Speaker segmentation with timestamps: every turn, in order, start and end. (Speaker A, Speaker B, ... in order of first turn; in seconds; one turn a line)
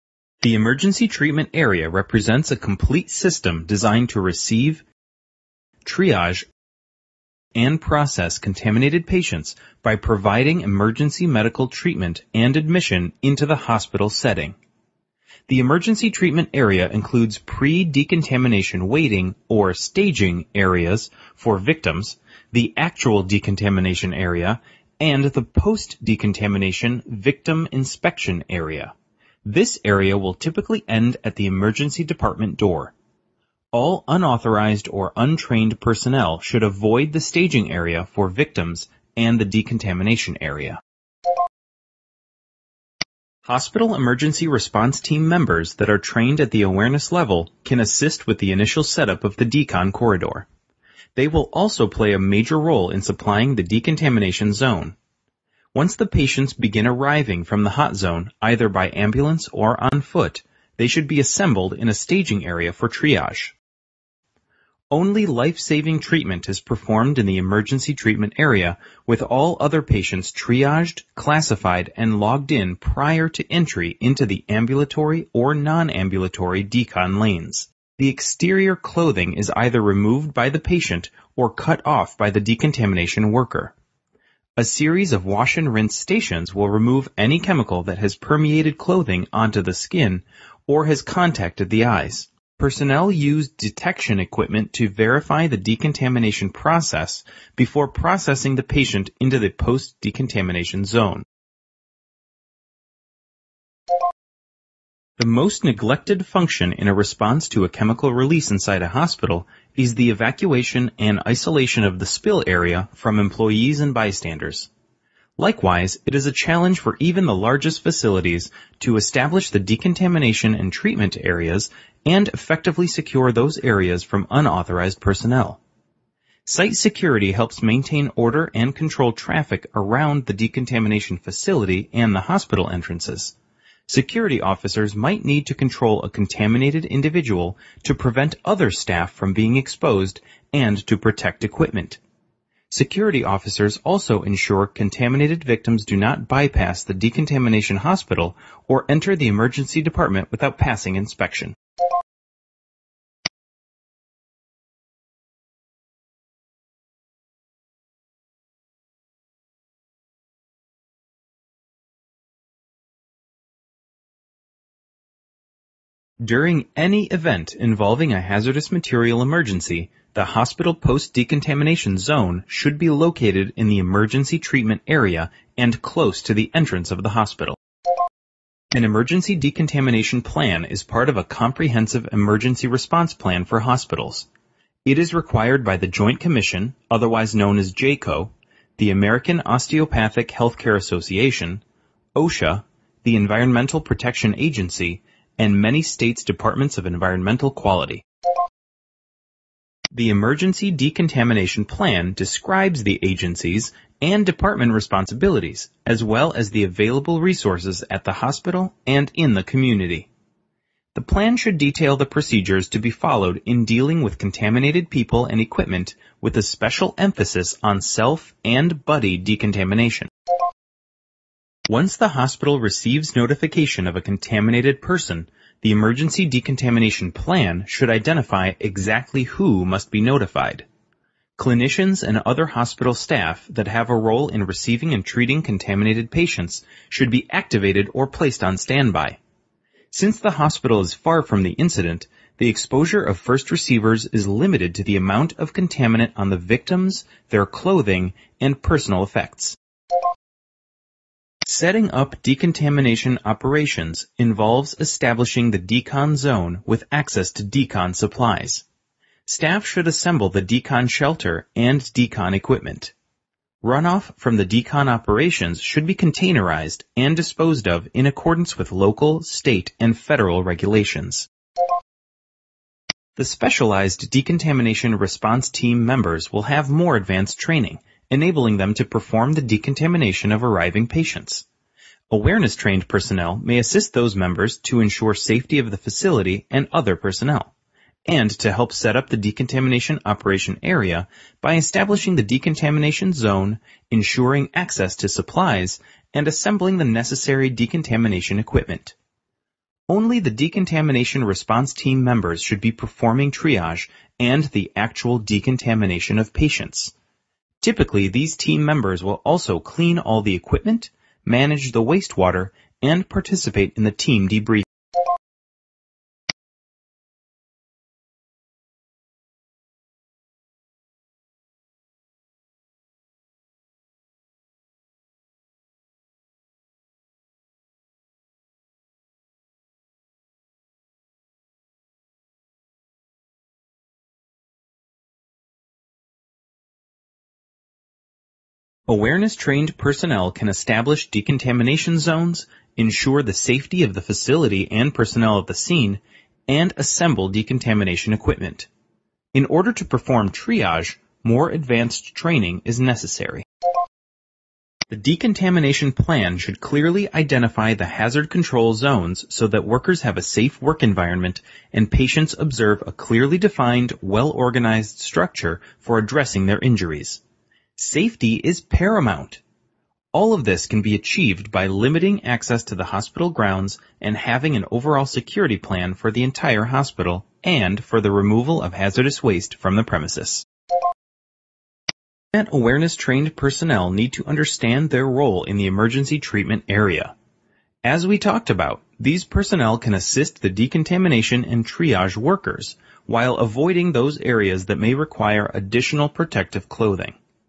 Speaker A: 0.4-4.8
Speaker A: 5.8-6.5
Speaker A: 7.5-14.6
Speaker A: 15.5-28.9
Speaker A: 29.4-32.9
Speaker A: 33.7-40.8
Speaker A: 43.4-50.5
Speaker A: 51.1-55.0
Speaker A: 55.7-63.5
Speaker A: 64.9-83.7
Speaker A: 84.6-101.2
Speaker A: 105.2-114.7
Speaker A: 115.4-125.6
Speaker A: 126.5-133.3
Speaker A: 133.9-142.0
Speaker A: 142.7-151.6
Speaker A: 166.2-177.6
Speaker A: 178.7-184.3
Speaker A: 184.8-191.6
Speaker A: 192.2-198.0
Speaker A: 199.9-210.1
Speaker A: 210.9-220.1
Speaker A: 221.7-230.7
Speaker A: 231.4-239.2
Speaker A: 239.9-249.6
Speaker A: 251.4-258.6
Speaker A: 259.2-262.9
Speaker A: 263.6-271.3
Speaker A: 273.1-281.4
Speaker A: 282.1-287.5
Speaker A: 288.1-298.9
Speaker A: 299.9-306.9
Speaker A: 307.6-314.7
Speaker A: 338.9-348.7
Speaker A: 349.3-353.4
Speaker A: 354.9-367.2
Speaker A: 367.8-369.4
Speaker A: 370.1-380.4
Speaker A: 382.3-387.1
Speaker A: 387.8-397.2